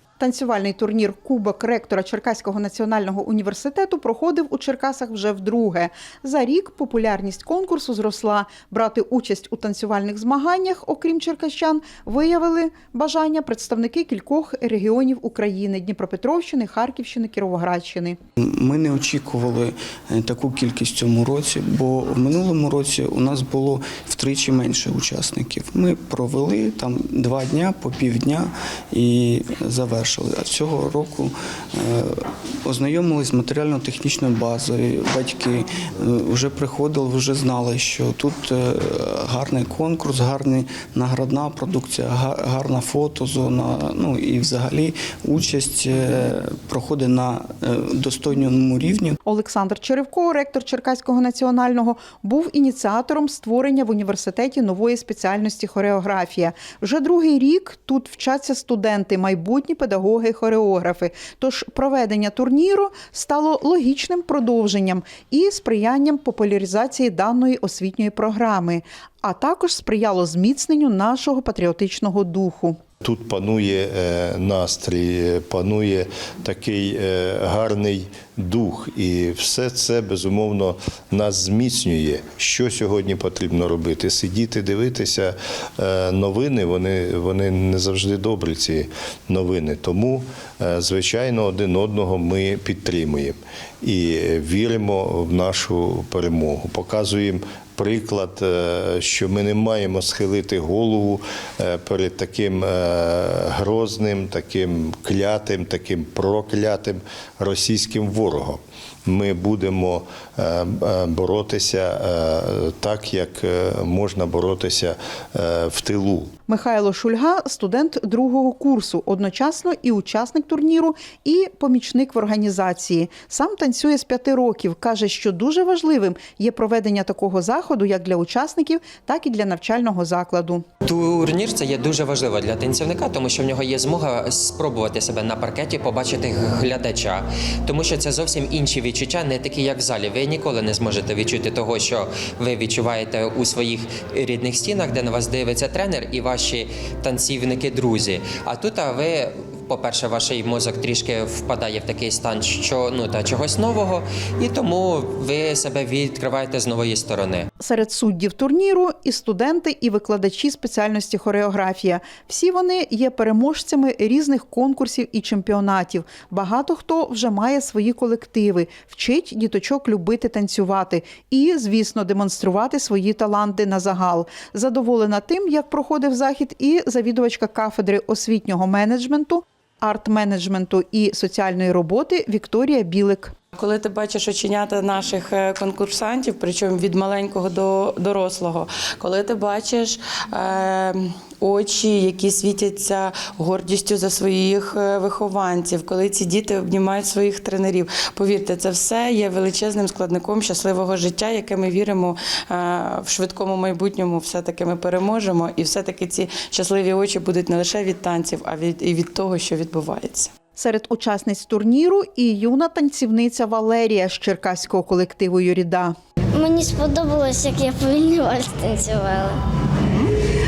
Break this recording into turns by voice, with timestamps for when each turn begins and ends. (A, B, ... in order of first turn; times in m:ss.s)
0:00.2-0:18.2 A
0:18.4-0:49.2 B
0:49.2-1:12.8 A
1:13.0-1:56.3 C
1:56.5-2:10.6 A
2:10.8-2:37.5 D
2:37.6-3:03.3 A
3:03.6-3:30.2 E
3:30.6-3:35.9 A
3:36.3-3:39.4 F